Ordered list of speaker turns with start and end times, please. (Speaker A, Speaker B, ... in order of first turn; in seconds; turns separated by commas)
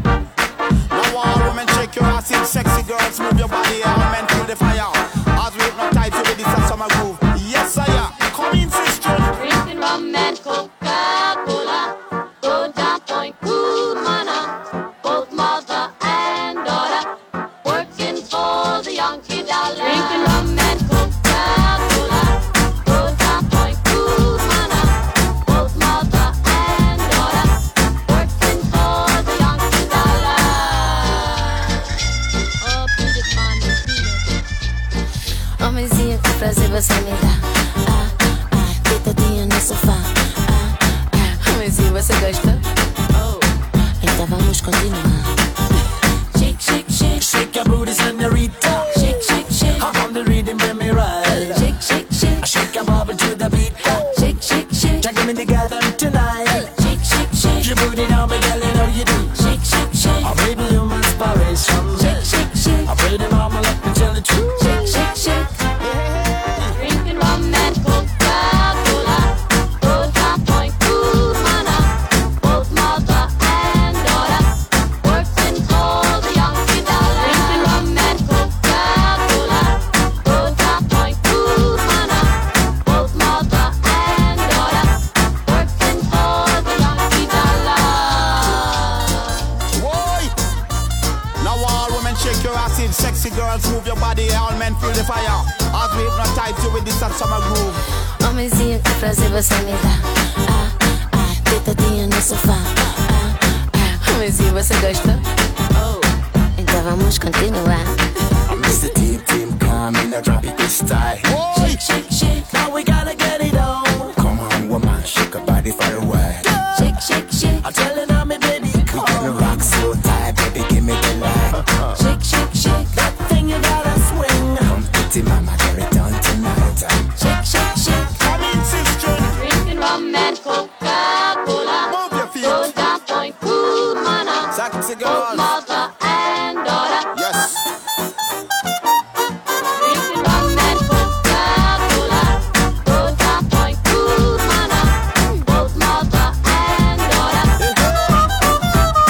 Speaker A: 0.9-9.5, Speaker B: 9.5-17.1, Speaker B: 17.6-31.6, Speaker B: 32.6-34.2, Speaker C: 35.6-45.5, Speaker C: 46.4-47.2, Speaker D: 47.2-48.7, Speaker C: 48.8-49.8, Speaker D: 49.8-51.4, Speaker C: 51.4-52.4, Speaker D: 52.5-53.9, Speaker C: 54.2-55.0, Speaker D: 55.0-56.7, Speaker C: 56.8-57.6, Speaker D: 57.6-59.4, Speaker C: 59.4-60.3, Speaker D: 60.3-62.1, Speaker C: 62.3-62.9, Speaker D: 62.9-64.5, Speaker C: 64.6-65.6, Speaker A: 65.8-66.8, Speaker B: 66.8-89.3, Speaker A: 89.7-90.3, Speaker A: 91.4-97.9, Speaker C: 98.2-108.2, Speaker D: 108.5-111.3, Speaker A: 111.3-111.8, Speaker C: 111.7-112.5, Speaker D: 112.5-116.5, Speaker C: 116.8-117.7, Speaker D: 117.7-121.5, Speaker C: 121.9-123.0, Speaker D: 123.0-127.0, Speaker C: 127.2-128.1, Speaker A: 128.1-129.5, Speaker B: 129.5-131.8, Speaker A: 131.9-132.7, Speaker B: 132.7-134.5, Speaker A: 134.5-135.6, Speaker B: 135.5-137.1, Speaker A: 137.1-137.7, Speaker B: 139.9-145.0, Speaker B: 145.5-147.5